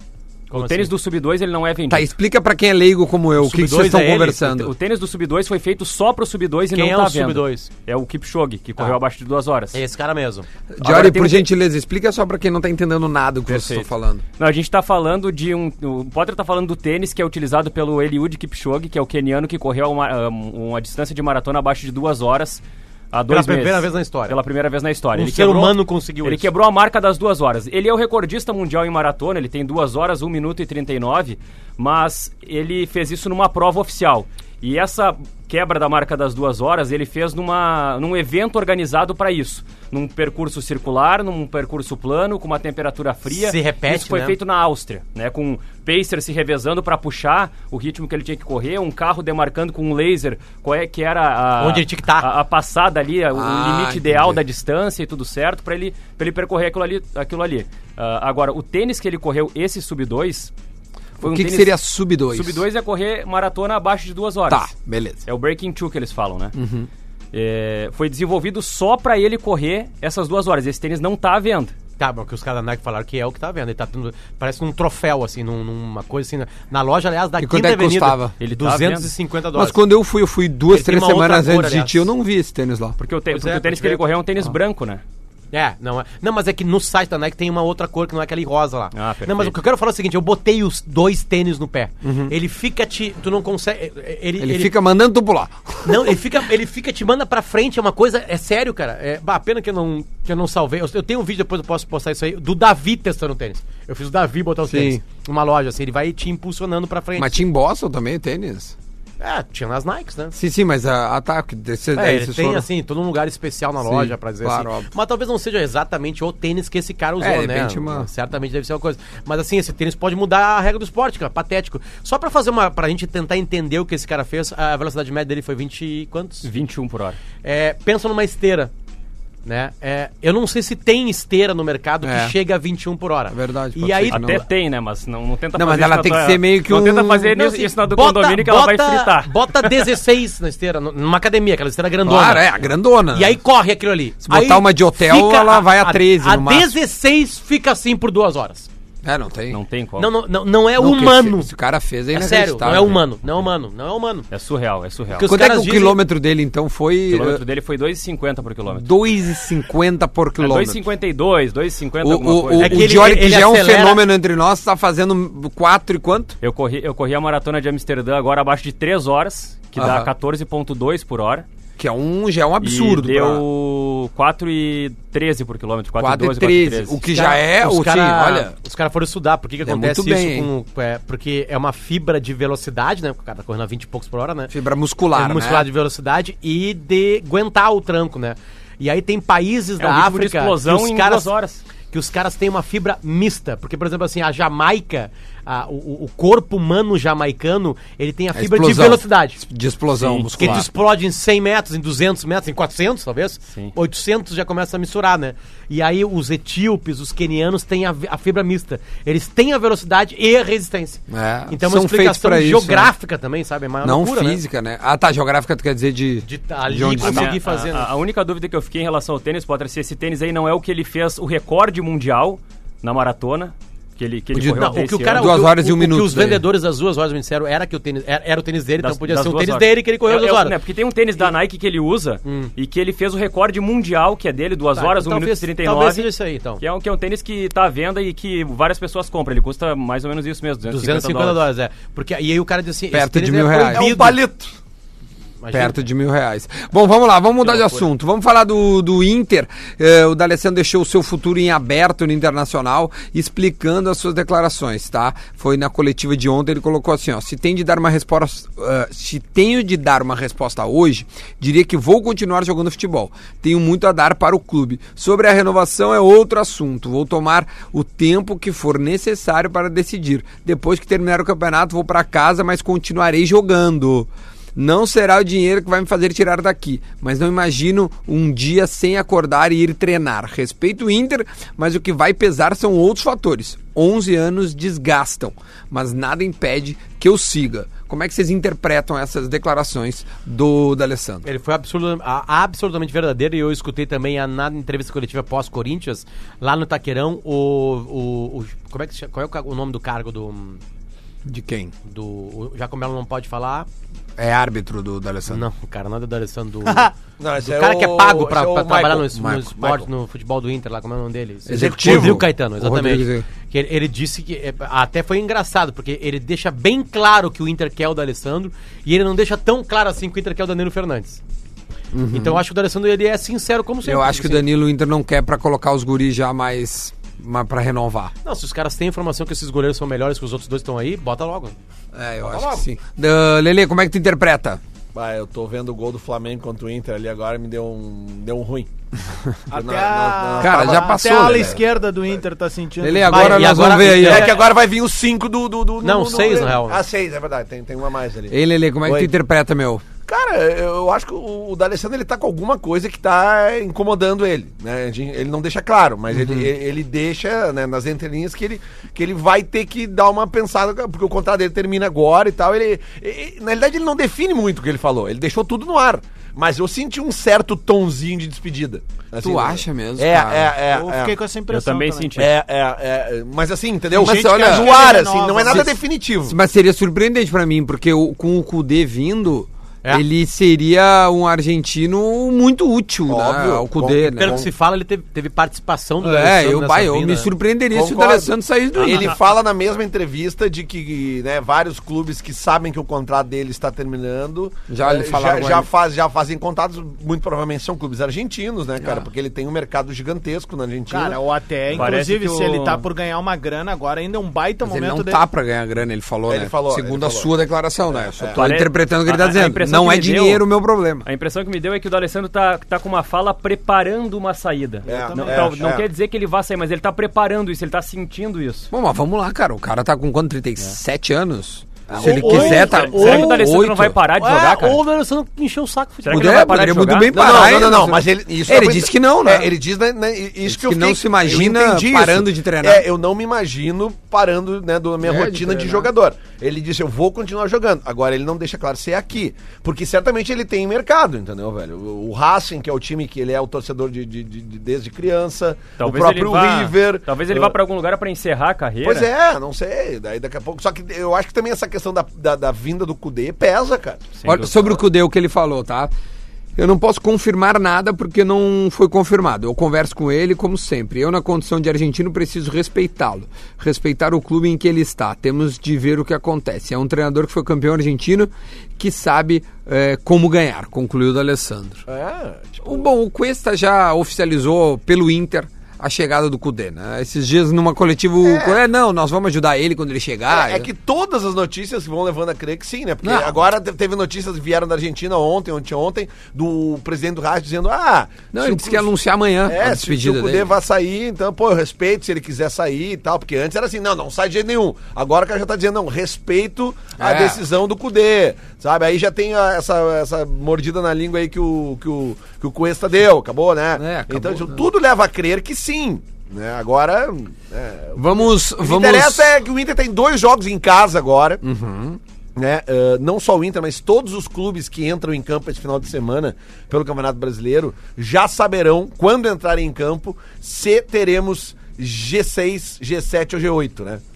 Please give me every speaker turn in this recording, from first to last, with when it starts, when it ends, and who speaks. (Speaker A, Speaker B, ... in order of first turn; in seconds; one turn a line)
Speaker A: 0.5-0.9
Speaker B: 0.5-2.1
Speaker C: 1.9-4.7
Speaker A: 3.4-4.5
Speaker B: 4.5-9.8
Speaker A: 6.7-7.7
Speaker A: 9.7-11.4
Speaker C: 10.8-14.2
Speaker B: 13.5-60.5
Speaker A: 23.3-24.4
Speaker A: 25.1-26.5
Speaker A: 43.3-44.4
Speaker A: 51.6-52.3
Speaker C: 53.3-54.4
Speaker C: 61.2-62.6
Speaker B: 61.2-61.7
Speaker B: 62.3-64.7
Speaker C: 64.5-65.2
Speaker B: 65.2-66.5
Speaker C: 66.5-66.9
Speaker B: 67.3-71.7
Speaker A: 72.0-79.8
Speaker C: 77.4-78.3
Speaker B: 78.4-79.1
Speaker C: 79.5-83.0
Speaker A: 80.7-82.1
Speaker B: 83.0-85.0
Speaker A: 83.3-84.0
Speaker A: 85.5-94.7
Speaker B: 88.9-89.5
Speaker C: 92.0-92.3
Speaker C: 94.4-96.2
Speaker A: 95.8-107.4
Speaker C: 104.6-105.0
Speaker C: 107.2-108.7
Speaker A: 109.2-110.3
Speaker C: 110.3-112.7
Speaker A: 112.0-126.5
Speaker C: 113.8-114.9
Speaker C: 117.2-118.1
Speaker B: 126.4-127.2
Speaker A: 127.4-128.7
Speaker A: 129.4-134.4
Speaker C: 132.0-132.3
Speaker C: 133.3-134.4
Speaker B: 134.1-139.3
Speaker C: 135.5-137.3
Speaker A: 137.3-142.6
Speaker C: 142.0-143.4
Speaker A: 143.1-148.7
Speaker C: 144.2-146.7
Speaker C: 149.0-149.6
Speaker B: 149.5-150.1
Speaker A: 150.0-151.5
Speaker C: 150.8-153.0
Speaker A: 152.1-154.3
Speaker B: 154.3-155.3
Speaker A: 155.1-156.0
Speaker C: 155.2-157.4
Speaker B: 157.1-158.9
Speaker C: 158.7-160.8
Speaker B: 160.4-163.0
Speaker C: 162.0-166.3
Speaker A: 162.6-164.0
Speaker B: 166.4-171.4
Speaker C: 169.8-170.1
Speaker C: 171.8-173.4
Speaker B: 172.6-177.0
Speaker C: 176.0-178.5
Speaker A: 177.1-184.5
Speaker C: 179.6-180.5
Speaker C: 184.5-185.7
Speaker A: 185.1-191.3
Speaker B: 189.8-191.6
Speaker A: 191.9-199.4
Speaker C: 198.3-200.7
Speaker B: 200.0-200.6
Speaker A: 200.4-214.4
Speaker C: 211.1-212.9
Speaker C: 213.8-217.3
Speaker A: 216.2-217.9
Speaker B: 216.9-225.3
Speaker C: 224.3-226.4
Speaker A: 224.4-230.6
Speaker B: 228.8-236.1
Speaker A: 232.2-232.5
Speaker A: 234.8-236.6
Speaker B: 236.6-241.4
Speaker A: 240.7-244.2
Speaker C: 242.9-243.9
Speaker D: 243.7-244.5
Speaker A: 245.4-245.8
Speaker C: 245.5-291.2
Speaker A: 247.4-247.8
Speaker A: 291.2-300.6
Speaker C: 301.2-301.7
Speaker A: 301.8-303.7
Speaker C: 304.2-305.4
Speaker A: 305.3-321.2
Speaker D: 307.2-309.8
Speaker C: 309.1-309.7
Speaker C: 311.5-313.3
Speaker D: 311.5-312.2
Speaker C: 321.9-322.4
Speaker A: 322.1-324.4
Speaker C: 323.8-328.1
Speaker A: 328.2-331.5
Speaker C: 331.9-334.6
Speaker D: 334.9-338.7
Speaker E: 339.5-343.6
Speaker D: 339.5-341.6
Speaker C: 340.4-341.6
Speaker C: 342.8-344.3
Speaker A: 343.1-344.4
Speaker D: 343.8-349.1
Speaker A: 345.8-346.8
Speaker C: 348.3-349.8
Speaker D: 350.1-371.1
Speaker C: 356.1-356.5
Speaker C: 369.2-370.5
Speaker E: 370.7-372.2
Speaker B: 371.5-372.4
Speaker D: 372.2-376.4
Speaker E: 373.9-375.8
Speaker C: 373.9-374.9
Speaker C: 376.3-384.5
Speaker D: 383.1-384.5
Speaker A: 384.1-387.3
Speaker C: 386.0-389.1
Speaker D: 387.7-401.2
Speaker B: 388.8-389.1
Speaker C: 394.7-395.7
Speaker C: 398.8-399.1
Speaker E: 400.9-405.2
Speaker B: 401.7-402.8
Speaker C: 404.6-411.1
Speaker D: 406.3-407.3
Speaker D: 407.9-408.4
Speaker B: 408.4-410.4
Speaker B: 411.0-418.7
Speaker E: 414.8-415.6
Speaker D: 414.9-415.9
Speaker C: 418.7-424.0
Speaker D: 421.9-423.1
Speaker A: 422.0-423.5
Speaker B: 422.2-424.8
Speaker A: 424.2-426.5
Speaker B: 426.0-427.5
Speaker C: 426.1-429.5
Speaker D: 427.1-447.6
Speaker C: 430.4-432.8
Speaker C: 435.0-435.9
Speaker B: 445.8-449.1
Speaker D: 448.8-454.1
Speaker B: 454.2-454.8
Speaker C: 454.2-455.9
Speaker C: 456.6-471.8
Speaker D: 471.9-472.9
Speaker C: 472.6-480.7
Speaker D: 478.2-478.6
Speaker D: 480.3-488.9
Speaker C: 483.0-483.4
Speaker C: 488.3-490.5
Speaker D: 489.4-511.4
Speaker C: 497.0-497.4
Speaker C: 503.7-504.7
Speaker C: 507.9-509.3
Speaker C: 511.4-512.0
Speaker D: 512.4-524.0